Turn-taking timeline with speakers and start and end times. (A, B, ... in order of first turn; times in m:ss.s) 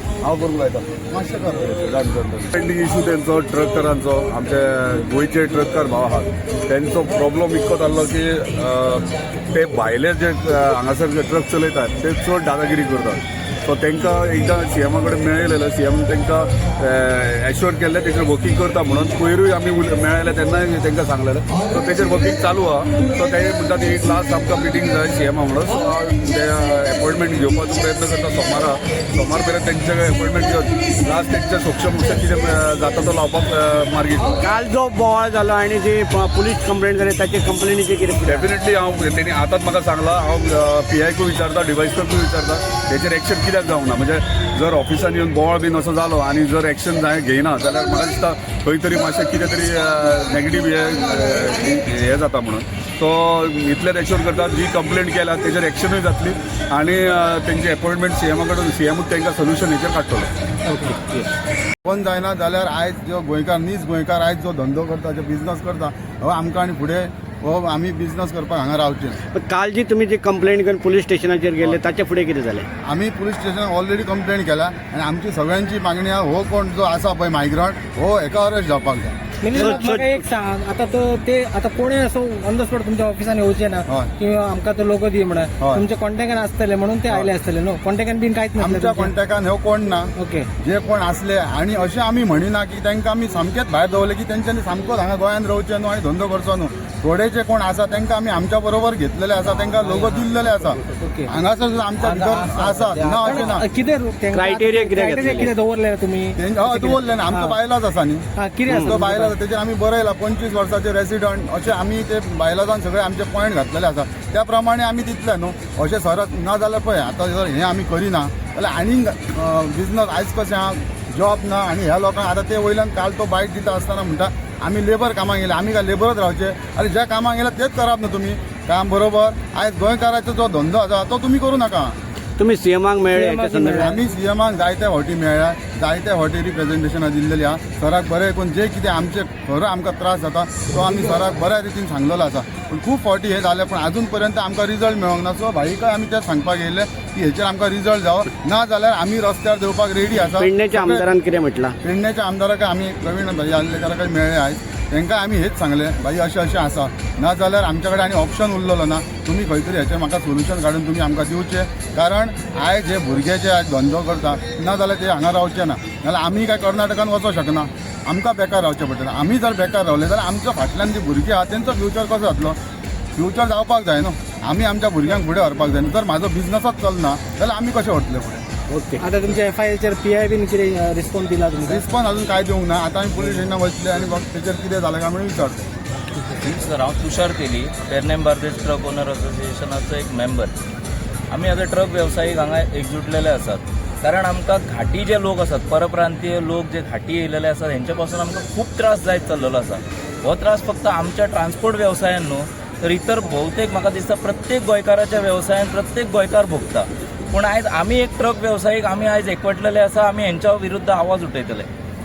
0:00.2-0:00.9 A
0:01.1-0:01.7 B
0:01.7-0:34.4 A
0:34.4-0:38.5 C
0:38.2-1:00.3 A
1:00.8-1:01.1 C
1:01.8-1:09.2 B
1:09.3-1:12.7 C
1:12.8-1:19.2 B
1:19.4-1:29.1 D
1:19.5-1:20.2 C
1:25.6-1:25.8 B
1:28.6-1:43.6 B
1:30.2-1:30.5 D
1:39.7-1:40.2 D
1:40.9-1:41.3 D
1:42.0-1:47.5 D
1:44.3-1:45.5 C
1:46.4-2:11.9 B
1:48.4-1:49.3 D
1:48.7-1:48.9 C
2:12.4-2:13.9 C
2:13.1-2:14.0 D
2:13.8-2:31.0 B
2:30.4-2:31.7 C
2:31.8-2:52.6 B
2:53.2-2:58.4 B
2:58.7-2:59.0 C
2:59.0-3:01.8 D
3:01.6-3:05.7 B
3:06.4-3:10.5 E
3:11.3-3:31.7 E